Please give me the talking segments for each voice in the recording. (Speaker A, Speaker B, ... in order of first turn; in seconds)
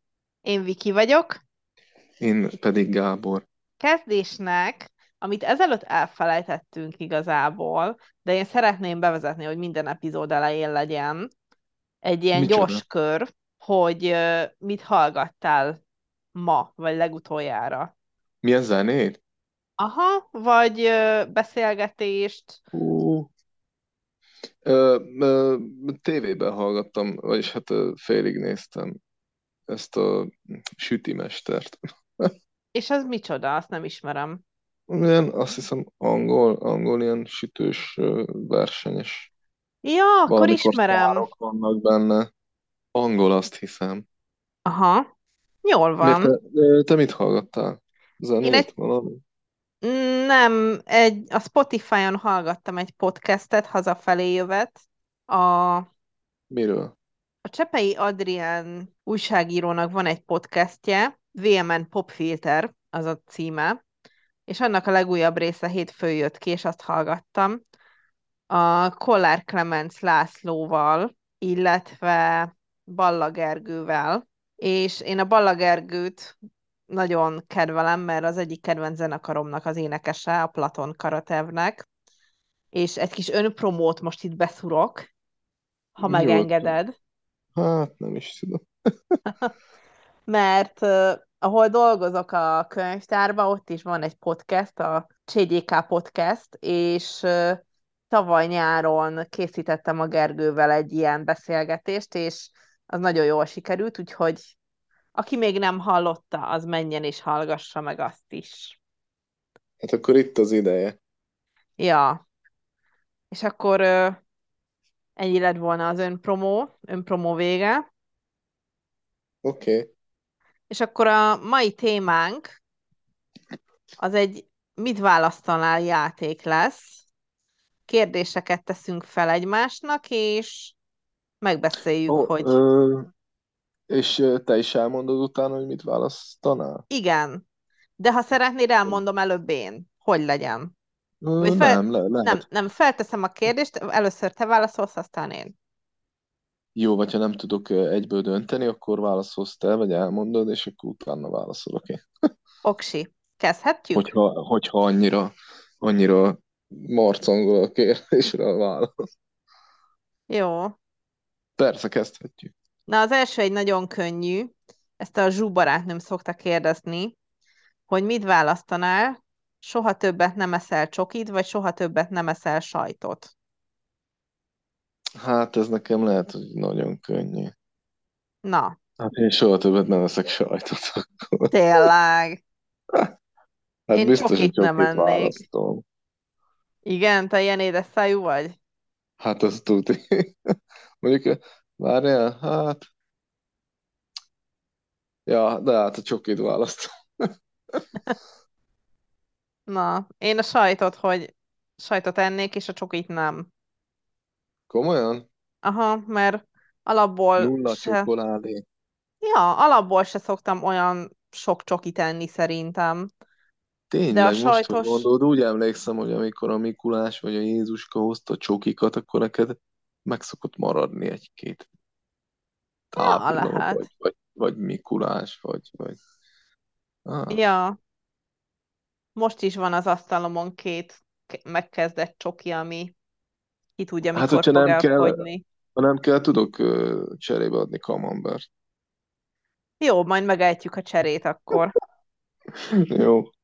Speaker A: 0.4-1.4, 3.8-11.3, 12.0-15.8, 16.3-17.9, 19.8-22.6, 32.7-34.4, 39.8-41.3, 44.6-45.0, 45.6-46.3, 48.4-48.7, 49.8-55.9, 57.4-63.8, 64.5-67.6, 68.5-76.3, 76.9-81.8, 82.7-85.1, 86.0-86.9, 89.3-89.5, 90.3-104.5, 105.1-108.8, 111.8-112.2, 113.3-114.2, 115.2-117.8, 120.7-122.6, 124.0-127.0, 127.9-130.8, 131.4-132.6, 136.9-137.4, 138.0-140.7, 141.4-145.5, 152.6-154.1, 160.3-160.8, 162.9-167.2, 167.9-173.3, 178.4-178.8, 181.5-182.4, 183.9-185.3, 186.8-188.6, 199.7-203.5, 205.6-208.1, 209.2-213.1, 214.1-215.1, 223.0-223.8, 227.3-227.8, 229.2-232.9, 233.8-235.4, 239.8-241.7
Speaker B: 2.2-3.4, 12.3-12.8, 18.4-19.2, 22.7-23.3, 24.6-29.0, 29.7-32.3, 34.9-39.3, 40.3-42.3, 42.9-44.0, 46.0-49.2, 56.5-56.9, 86.0-86.7, 87.5-88.6, 109.8-111.0, 119.4-119.9, 132.1-133.1, 133.9-136.8, 141.2-142.4, 146.8-152.0, 153.9-158.9, 161.6-162.5, 175.2-177.5, 179.0-181.5, 183.9-185.8, 189.2-190.3, 191.0-192.8, 195.3-197.8, 204.7-205.2, 207.4-208.6, 213.9-221.7, 222.9-226.0, 227.1-227.4, 234.2-235.2, 235.8-238.4, 242.8-243.3